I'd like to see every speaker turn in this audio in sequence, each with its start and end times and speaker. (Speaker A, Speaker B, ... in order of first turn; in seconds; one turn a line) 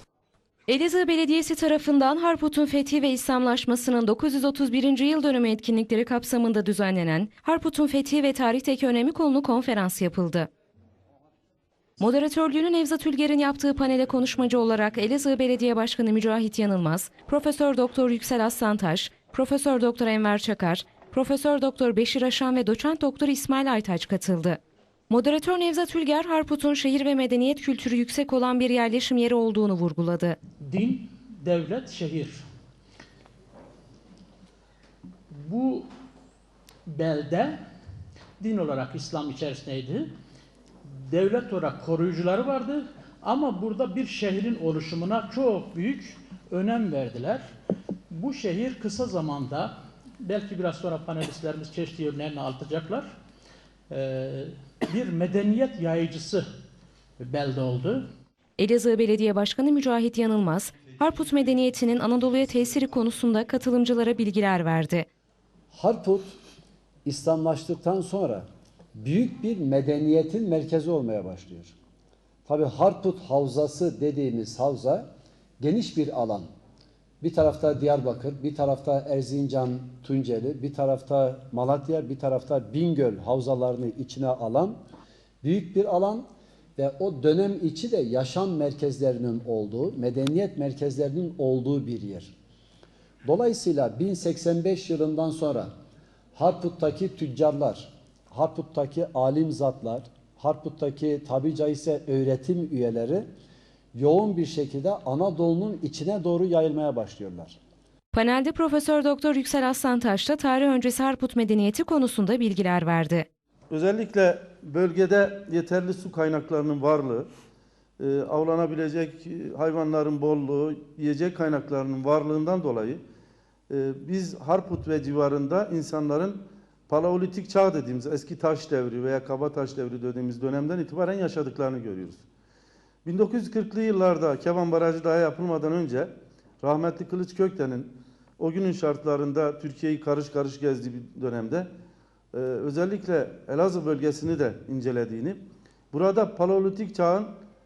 Speaker A: 0.7-10.5
Speaker A: 12.0-24.6
Speaker A: 25.1-30.4
Speaker B: 31.8-32.3
Speaker B: 37.0-37.5
Speaker B: 38.5-39.9
Speaker B: 43.4-45.5
Speaker B: 46.6-47.4
Speaker B: 48.3-49.6
Speaker B: 50.3-53.0
Speaker B: 55.0-56.4
Speaker B: 57.3-57.9
Speaker A: 58.6-65.1
Speaker C: 65.7-66.3
Speaker C: 67.0-71.7
Speaker C: 72.5-75.1
Speaker C: 75.6-76.5
Speaker C: 77.2-84.8
Speaker C: 85.4-92.3
Speaker C: 93.2-95.7
Speaker C: 96.3-103.2
Speaker C: 104.0-107.6
Speaker A: 108.1-113.3
Speaker D: 113.7-117.3
Speaker D: 118.0-123.0
Speaker D: 123.7-132.2
Speaker D: 133.0-141.7
Speaker D: 142.3-145.4
Speaker D: 145.9-147.3